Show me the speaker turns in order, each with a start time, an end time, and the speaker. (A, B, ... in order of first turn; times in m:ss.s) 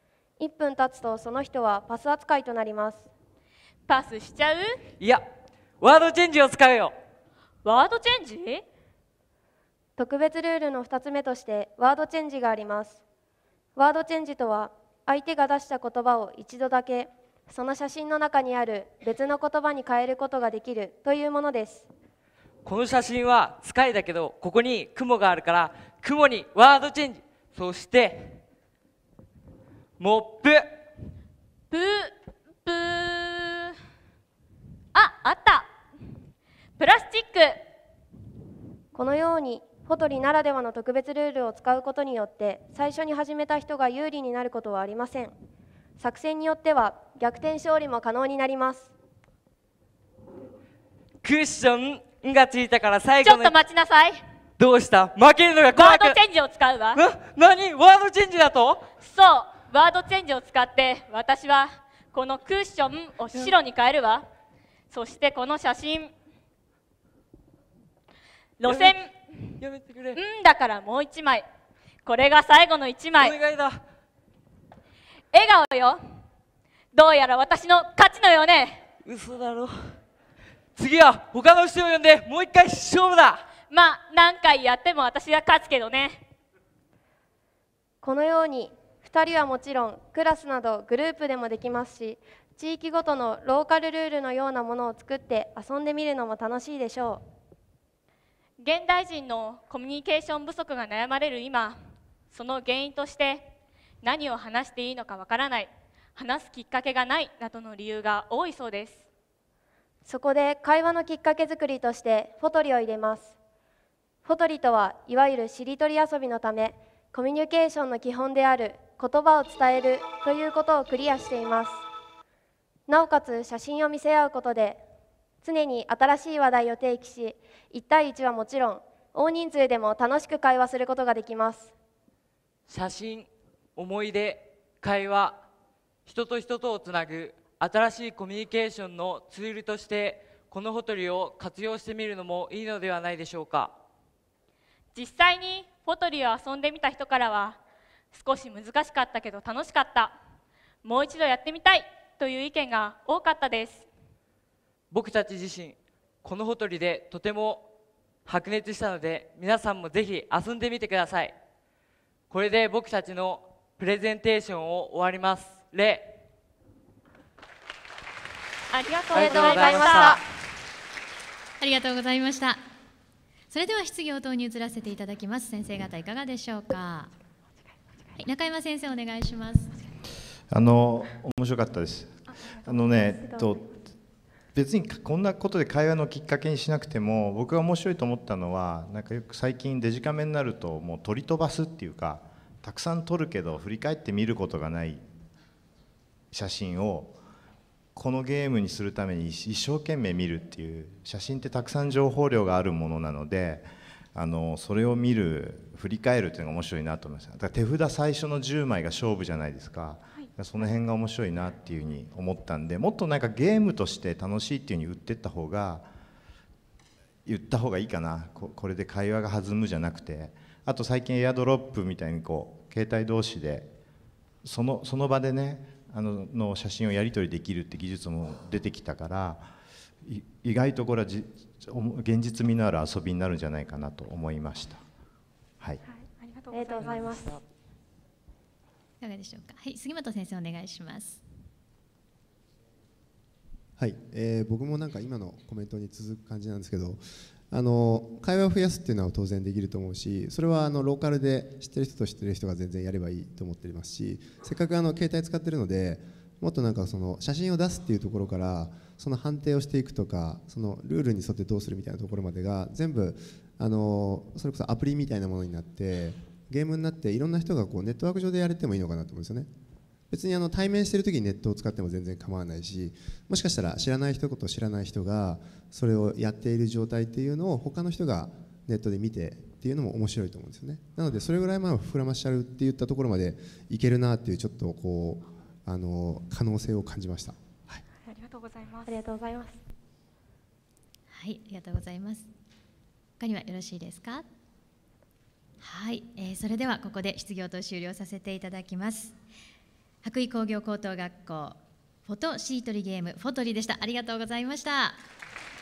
0:00.4-0:03.1 A
0:03.9-0:04.8 B
0:05.8-0:06.9 C
0:07.6-0:08.6 B
0:10.0-0:13.0 A
0:13.8-0:21.9 A
0:22.6-0:28.4 C
0:30.0-0:30.6 C
0:31.7-0:32.1 B
0:32.6-0:33.7 B
0:34.9-0:35.7 B
0:36.8-0:37.6 B
0:38.9-0:45.3 A
0:46.0-0:48.9 A
0:51.2-0:53.6 C
0:53.2-0:54.2 B
0:54.6-0:56.2 C
0:55.8-0:57.0 B
0:57.0-0:58.8 C
0:59.0-1:04.2 B
1:04.9-1:06.1 B
1:08.6-1:09.1 B
1:08.6-1:09.0 C
1:09.6-1:10.2 C
1:10.2-1:11.5 B
1:12.0-1:13.4 B
1:13.2-1:13.8 C
1:15.3-1:16.0 B
1:16.9-1:18.8 B
1:19.0-1:20.0 C
1:20.8-1:23.4 C
1:23.7-1:26.2 B
1:28.0-1:37.2 A
1:38.6-1:41.8 B
1:42.3-1:43.5 B
1:44.0-1:49.0 B
1:50.1-1:53.4 A
1:54.2-2:01.8 A
2:02.9-2:04.8 A
2:05.4-2:11.7 A
2:12.7-2:15.4 C
2:16.1-2:23.8 C
2:24.9-2:27.6 B
2:28.1-2:30.2 B
2:30.8-2:33.9 B
2:34.9-2:37.7 C
2:38.3-2:41.4 C
2:42.3-2:46.2 C
2:48.7-2:50.2 B
2:49.1-2:50.2 A
2:49.1-2:50.2 C
2:51.6-2:52.6 D
2:53.5-2:57.1 D
2:58.2-2:59.7 D
3:00.5-3:03.6 E
3:04.5-3:15.0 E
3:16.3-3:17.2 E
3:18.0-3:35.9 E
3:37.3-3:43.7 E
3:44.4-3:49.5 E
3:50.0-3:54.8 E
3:56.5-3:57.3 A
3:56.6-3:57.4 C
3:59.0-4:01.2 D
4:03.8-4:29.5 F
4:30.1-4:47.8 F
4:48.9-4:49.6 A
4:51.1-4:52.3 D
4:53.2-4:54.3 D
4:55.6-4:59.2 D
5:00.0-5:05.0 D